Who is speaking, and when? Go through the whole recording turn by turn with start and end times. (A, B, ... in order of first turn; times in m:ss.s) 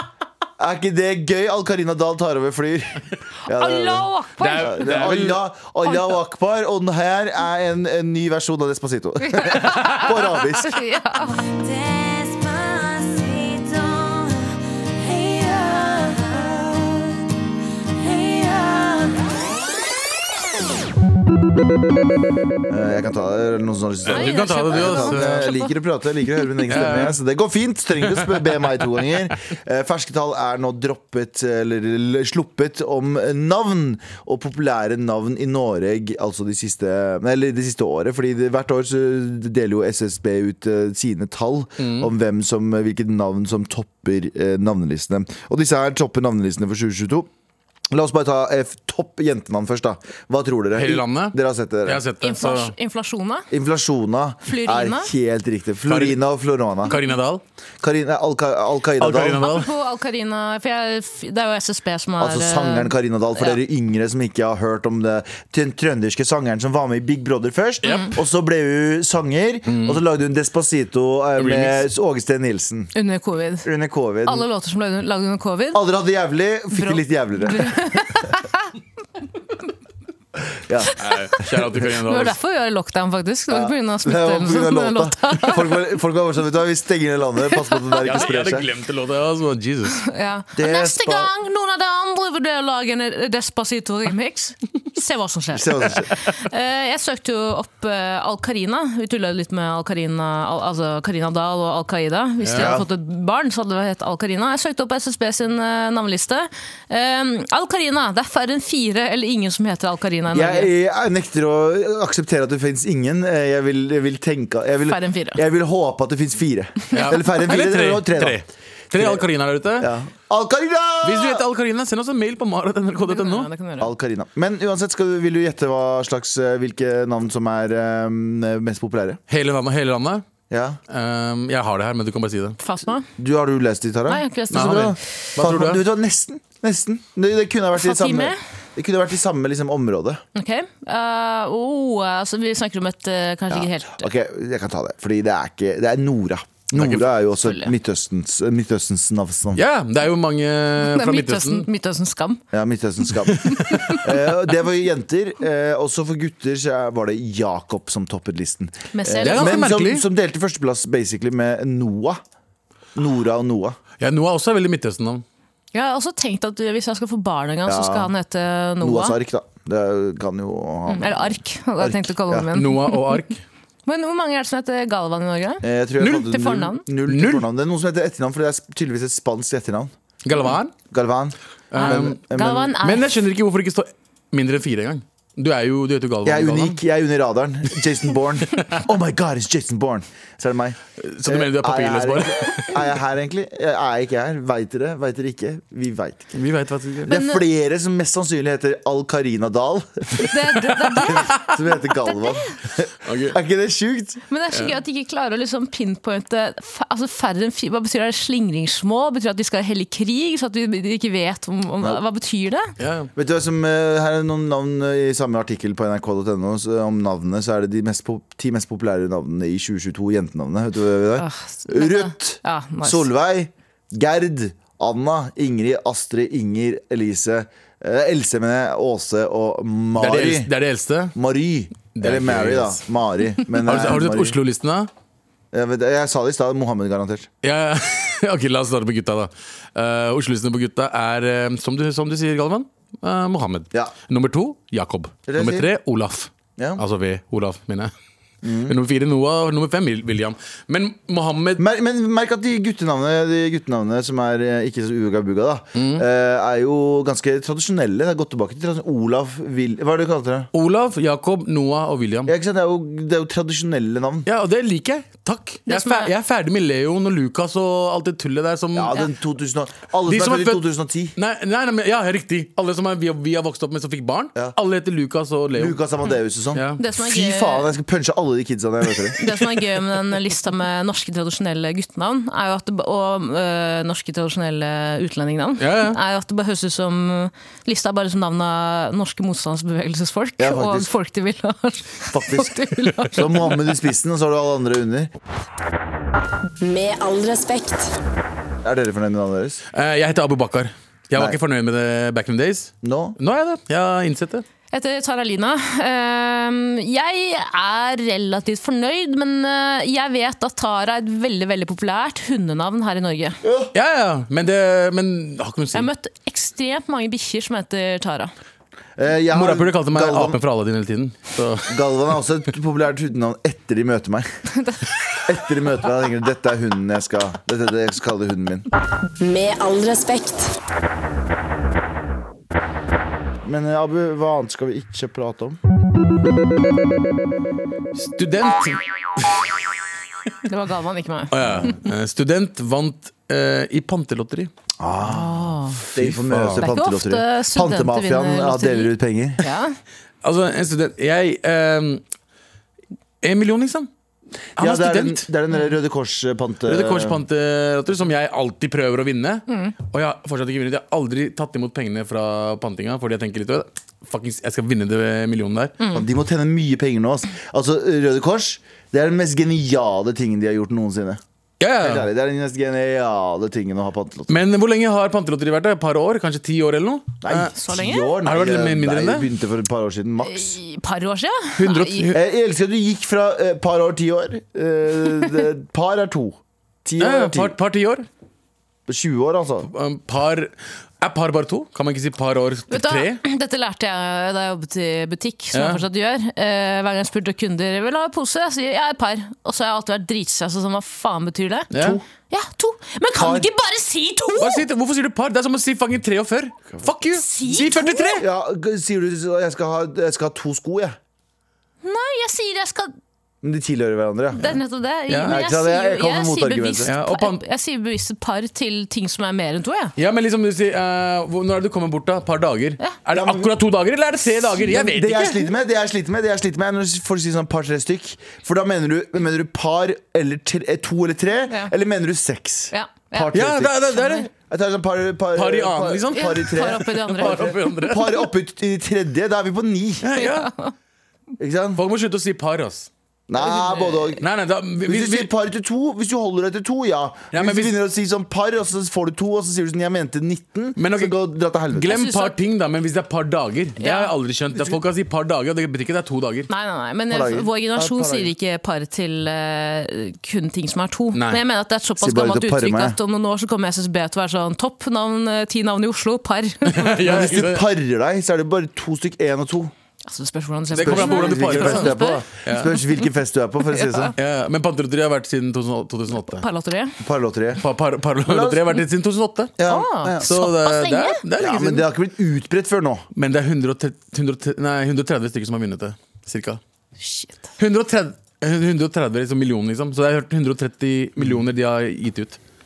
0:00.6-0:10.8 A
0:03.5-0:04.9 B
0:04.4-0:05.4 C
0:09.2-0:11.4 B
0:11.6-0:14.5 D
0:15.0-0:17.0 D
0:18.0-0:18.9 D
0:22.7-0:47.3 A
0:24.1-0:25.5 C
0:24.1-0:25.7 B
0:26.7-0:27.2 C
0:28.1-0:29.2 C
0:41.8-0:42.1 C
0:47.9-0:52.0 A
0:50.8-0:52.7 C
0:52.2-0:53.5 B
0:53.5-0:57.0 A
0:54.5-0:55.1 B
0:55.9-0:56.2 C
0:56.8-0:57.4 C
0:57.8-0:59.5 A
0:59.0-0:59.7 C
0:59.4-1:03.6 B
1:02.2-1:12.9 A
1:07.8-1:08.1 C
1:09.7-1:10.0 C
1:11.4-1:11.9 C
1:13.0-1:13.7 B
1:13.6-1:14.5 A
1:14.2-1:15.8 B
1:15.7-1:18.0 A
1:16.7-1:18.7 B
1:20.7-1:21.0 A
1:21.0-1:22.4 C
1:22.0-1:25.7 B
1:23.5-1:28.7 A
1:28.0-1:30.0 C
1:30.0-1:50.7 B
1:30.6-1:31.3 A
1:35.5-1:36.1 A
1:42.4-1:42.8 C
1:42.5-1:42.9 A
1:50.3-1:58.4 A
1:54.9-1:55.4 B
1:56.9-1:59.9 C
1:58.9-1:59.3 A
1:59.8-2:01.4 A
2:01.0-2:03.5 C
2:03.0-2:03.9 B
2:03.8-2:09.2 A
2:09.3-2:10.2 C
2:10.5-2:10.8 A
2:10.9-2:12.6 C
2:12.6-2:13.1 B
2:13.2-2:20.2 A
2:14.1-2:14.9 B
2:14.5-2:15.8 C
2:17.8-2:18.4 B
2:20.4-2:24.1 B
2:23.5-2:29.6 A
2:26.7-2:27.1 C
2:27.4-2:27.7 B
2:29.6-2:31.7 C
2:30.8-2:32.4 B
2:32.5-2:42.2 A
2:33.3-2:34.0 C
2:33.5-2:34.0 B
2:38.9-2:39.6 B
2:39.2-2:40.0 C
2:43.0-2:43.8 A
2:44.0-2:45.2 C
2:45.7-2:49.2 B
2:47.7-2:48.1 A
2:48.8-2:52.5 A
2:50.9-2:53.2 B
2:52.5-2:53.4 C
2:53.9-2:56.8 B
2:55.6-2:59.9 A
2:56.0-2:56.3 C
2:57.1-2:57.5 C
3:00.2-3:00.8 C
3:00.9-3:02.8 A
3:01.7-3:02.2 C
3:01.8-3:03.1 B
3:02.8-3:06.8 C
3:06.2-3:16.3 A
3:11.0-3:12.9 C
3:16.3-3:17.2 C
3:17.1-3:20.4 A
3:17.1-3:17.4 B
3:20.2-3:22.4 B
3:21.0-3:24.2 A
3:23.0-3:23.4 C
3:24.3-3:32.7 B
3:32.8-3:33.1 C
3:33.2-3:50.5 A
3:41.2-3:43.1 B
3:50.0-3:51.2 C
3:51.2-3:54.4 A
3:52.0-3:52.8 C
3:53.5-3:54.9 C
3:55.5-3:57.3 A
3:57.4-4:07.9 C
4:05.3-4:05.7 A
4:06.6-4:06.8 A
4:08.4-4:08.8 A
4:08.7-4:11.6 C
4:11.6-4:20.5 A
4:15.8-4:16.0 C
4:20.5-4:22.3 C
4:22.3-4:24.3 A
4:24.3-4:29.0 C
4:25.7-4:26.1 B
4:28.7-4:31.2 A
4:30.1-4:35.8 C
4:35.5-4:39.3 A
4:36.5-4:36.8 C
4:36.8-4:37.7 B
4:39.2-4:53.5 B
4:45.6-4:46.0 C
4:50.4-4:50.9 A
4:52.1-4:55.1 A
4:56.6-4:58.0 E
4:58.6-4:59.6 A
4:59.7-5:04.4 C
5:02.8-5:03.2 A
5:04.7-5:13.4 B
5:13.4-5:13.7 A
5:13.7-5:15.9 C
5:15.7-5:18.3 B
5:19.0-5:20.4 A
5:19.3-5:21.9 C
5:21.7-5:24.3 A
5:25.3-5:28.7 A
5:29.2-5:30.5 E
5:33.4-5:35.6 A
5:38.0-5:39.5 C
5:40.4-5:41.8 B
5:41.3-5:44.5 C
5:41.4-5:41.7 A
5:44.8-5:49.4 A
5:45.0-5:45.8 B
5:46.0-5:46.7 C
5:46.6-5:49.8 B
5:50.2-5:52.0 C
5:53.2-5:53.9 C
5:54.6-5:55.3 C
5:54.6-5:57.2 A
5:56.7-6:05.8 C
5:59.5-5:59.7 B
6:05.8-6:06.1 B
6:05.9-6:11.2 A
6:11.6-6:12.1 C
6:11.8-6:14.4 A
6:14.3-6:17.5 C
6:17.2-6:20.6 A
6:17.6-6:18.2 B
6:18.2-6:19.3 C
6:20.2-6:22.1 B
6:21.6-6:22.2 C
6:22.1-6:27.5 A
6:27.0-6:28.1 C
6:28.9-6:29.7 A
6:29.7-6:33.2 C
6:32.7-6:41.7 B
6:35.5-6:35.8 C
6:41.7-6:42.0 C
6:42.3-6:44.6 B
6:43.1-6:43.5 A
6:44.4-6:48.3 C
6:47.1-6:48.2 B
6:48.2-6:51.0 A
6:51.8-6:52.9 B
6:53.4-6:54.6 A
6:54.4-6:59.9 B
6:55.1-6:55.4 C
6:55.2-6:56.9 A
6:56.9-6:57.4 C
7:00.0-7:05.5 C
7:03.1-7:03.5 A
7:04.5-7:20.1 A
7:12.7-7:13.4 B
7:13.3-7:14.3 C
7:13.9-7:14.3 B
7:15.4-7:18.2 C
7:16.1-7:17.8 B
7:20.0-7:20.5 C
7:20.2-7:20.7 B
7:21.4-7:21.8 A
7:21.8-7:22.9 C
7:23.3-7:24.2 A
7:23.4-7:24.2 B
7:24.2-7:25.3 C
7:24.8-7:32.0 A
7:27.3-7:27.8 C
7:30.8-7:31.2 C
7:31.7-7:36.5 C
7:31.9-7:32.4 B
7:33.8-7:34.1 B
7:36.5-7:47.0 B
7:37.1-7:38.3 A
7:41.1-7:41.4 C
7:42.0-7:43.0 A
7:46.7-7:47.7 C
7:47.0-7:49.7 A
7:50.0-7:52.2 B
7:50.7-7:52.7 C
7:50.8-7:54.1 A
7:53.7-7:54.1 B
7:54.2-7:56.4 C
7:56.2-7:57.0 B
7:57.0-7:57.6 A
7:57.6-7:59.6 C
7:58.2-7:58.8 A
7:59.6-8:00.3 A
7:59.7-8:01.2 B
8:00.2-8:01.9 C
8:01.4-8:03.1 A
8:03.2-8:06.6 C
8:07.0-8:07.5 B
8:07.6-8:12.4 C